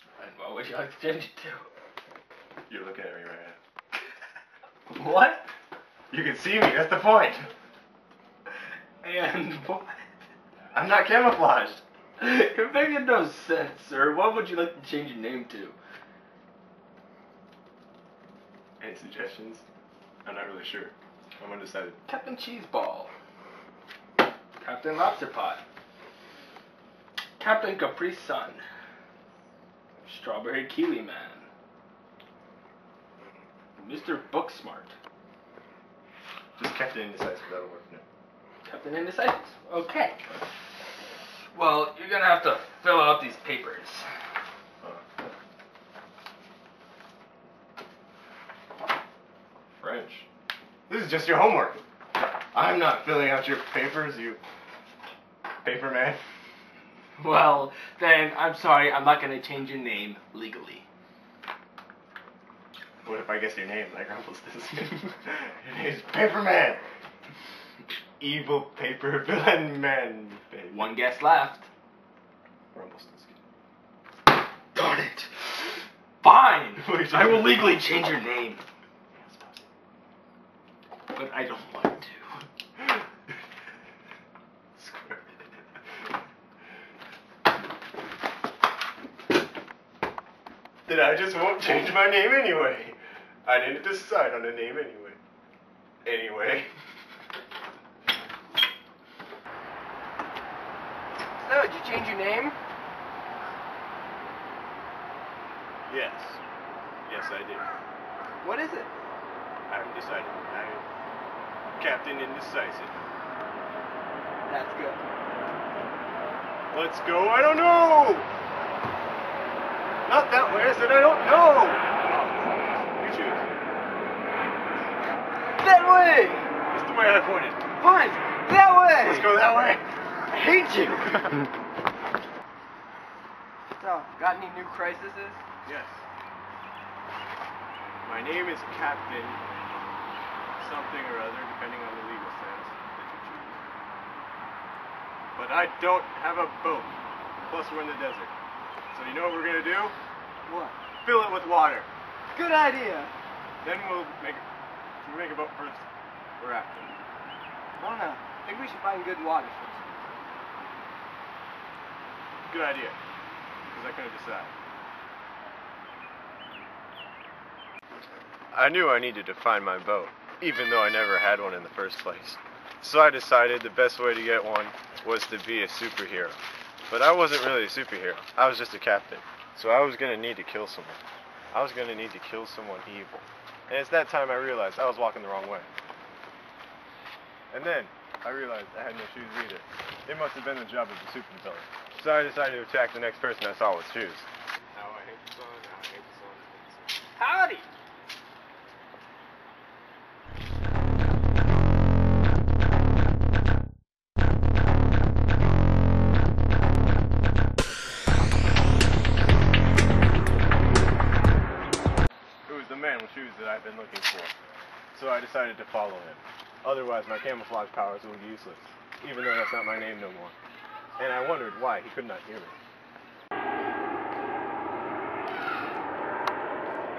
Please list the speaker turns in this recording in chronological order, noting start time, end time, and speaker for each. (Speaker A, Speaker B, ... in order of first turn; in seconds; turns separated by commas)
Speaker A: 0.2-1.7, Speaker B: 2.7-3.6, Speaker A: 4.9-5.5, Speaker B: 6.1-7.5, Speaker A: 9.0-10.0, Speaker B: 10.7-11.8, Speaker A: 12.2-15.8, Speaker B: 18.8-19.6, Speaker B: 20.2-22.0, Speaker A: 22.1-23.1, Speaker A: 24.6-25.6, Speaker A: 27.4-28.6, Speaker A: 30.0-31.5, Speaker A: 33.8-34.9, Speaker B: 36.6-38.0, Speaker A: 38.6-40.2, Speaker A: 41.5-44.1, Speaker B: 49.8-50.2, Speaker B: 50.9-51.8, Speaker B: 52.5-54.4, Speaker B: 55.6-56.2, Speaker A: 57.2-60.9, Speaker B: 63.0-66.8, Speaker B: 68.2-70.9, Speaker A: 70.7-71.7, Speaker B: 72.7-73.3, Speaker A: 74.7-78.6, Speaker B: 76.8-77.7, Speaker B: 79.1-79.7, Speaker A: 81.1-82.4, Speaker B: 84.8-85.3, Speaker B: 90.8-95.2, Speaker B: 96.0-96.7, Speaker C: 101.4-102.5, Speaker B: 105.9-106.4, Speaker B: 107.0-107.7, Speaker C: 108.4-108.9, Speaker B: 109.7-110.8, Speaker B: 111.8-112.9, Speaker C: 114.5-115.0, Speaker B: 116.7-118.3, Speaker B: 120.0-123.6, Speaker B: 124.3-124.9, Speaker C: 125.6-126.4, Speaker B: 126.7-127.6, Speaker C: 127.8-129.4, Speaker B: 129.0-129.8, Speaker C: 130.3-131.4, Speaker C: 133.8-135.4, Speaker B: 135.7-136.0, Speaker B: 138.0-139.4, Speaker B: 140.6-143.6, Speaker B: 145.3-148.3, Speaker B: 148.9-149.9, Speaker C: 150.4-150.8, Speaker B: 151.0-151.9, Speaker C: 152.3-153.1, Speaker B: 153.6-154.4, Speaker B: 155.0-155.8, Speaker B: 156.4-156.9, Speaker C: 157.8-159.8, Speaker B: 162.5-163.0, Speaker B: 163.7-164.5, Speaker B: 168.5-176.4, Speaker B: 176.9-181.0, Speaker B: 181.5-185.7, Speaker B: 187.5-196.9, Speaker A: 197.2-197.7, Speaker B: 212.5-214.3, Speaker B: 214.9-220.3, Speaker B: 221.0-222.6